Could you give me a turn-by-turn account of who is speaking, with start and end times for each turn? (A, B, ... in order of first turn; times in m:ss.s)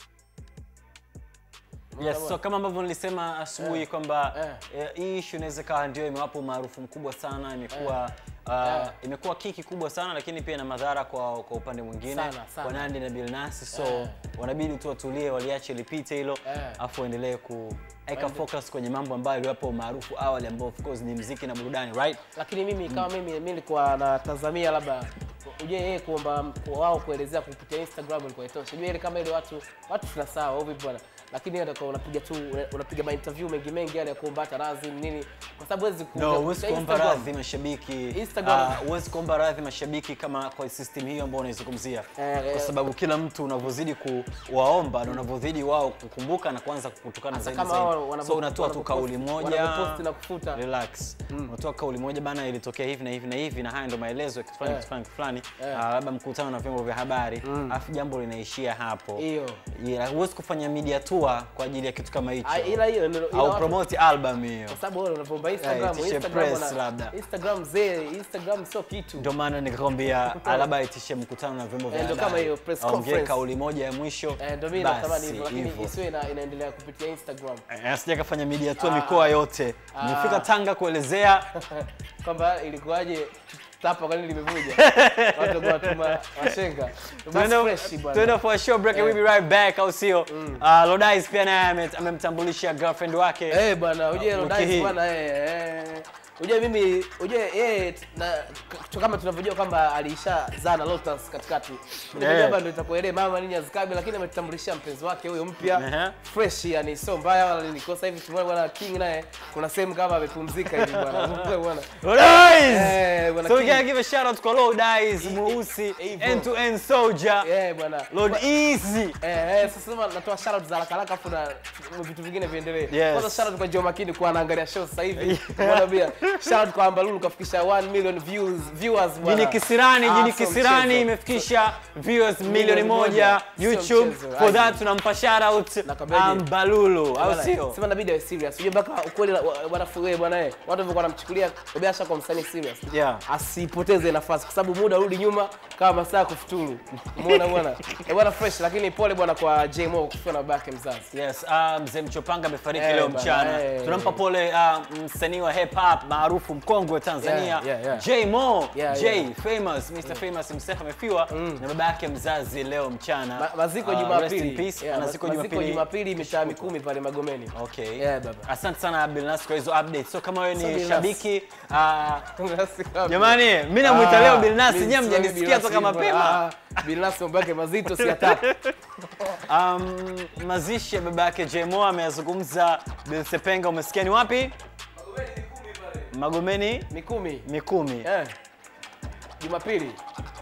0:02.0-0:02.4 A
0:02.0-0:22.2 B
0:04.3-0:04.6 A
0:08.6-0:08.9 A
0:12.1-0:12.9 A
0:13.7-0:14.2 A
0:16.4-0:16.8 A
0:18.1-0:18.4 A
0:22.4-0:37.3 A
0:36.2-0:50.0 B
0:38.1-0:38.8 A
0:42.2-0:42.7 A
0:47.3-0:50.6 A
0:50.6-0:59.2 B
0:54.6-0:54.9 A
0:57.4-0:57.8 A
0:59.2-0:59.6 A
0:59.8-1:02.8 B
1:02.4-1:03.8 A
1:03.3-1:04.8 B
1:04.7-1:09.3 A
1:05.6-1:07.2 B
1:09.2-1:15.9 B
1:10.2-1:10.7 A
1:11.9-1:13.4 A
1:14.4-1:17.6 A
1:17.7-1:21.5 B
1:18.8-1:19.4 A
1:19.9-1:20.5 A
1:21.7-1:28.4 A
1:24.8-1:26.5 B
1:27.3-1:33.6 B
1:28.9-1:29.2 A
1:30.3-1:30.6 A
1:33.5-1:51.9 A
1:34.1-1:34.9 B
1:42.2-1:42.6 B
1:45.6-1:46.2 B
1:50.8-1:51.4 B
1:52.0-1:57.5 B
1:52.7-1:53.8 A
1:55.2-1:56.5 A
1:57.4-1:58.4 A
1:58.1-1:59.2 B
1:59.2-2:11.4 A
2:02.9-2:03.5 B
2:05.2-2:06.4 B
2:09.2-2:17.8 B
2:12.4-2:14.8 A
2:15.8-2:16.5 A
2:17.2-2:31.1 A
2:22.9-2:23.2 B
2:31.1-2:46.7 B
2:32.8-2:34.2 A
2:37.2-2:38.1 A
2:38.7-2:39.3 A
2:41.3-2:41.6 A
2:43.4-2:48.5 A
2:47.5-2:52.2 B
2:50.6-2:51.2 A
2:52.4-2:58.5 A
2:53.1-2:56.4 B
2:58.1-2:58.7 B
2:59.4-3:04.6 B
3:05.0-3:06.1 A
3:06.1-3:06.9 B
3:06.9-3:07.5 A
3:07.4-3:08.1 B
3:08.0-3:08.3 A
3:09.4-3:10.0 A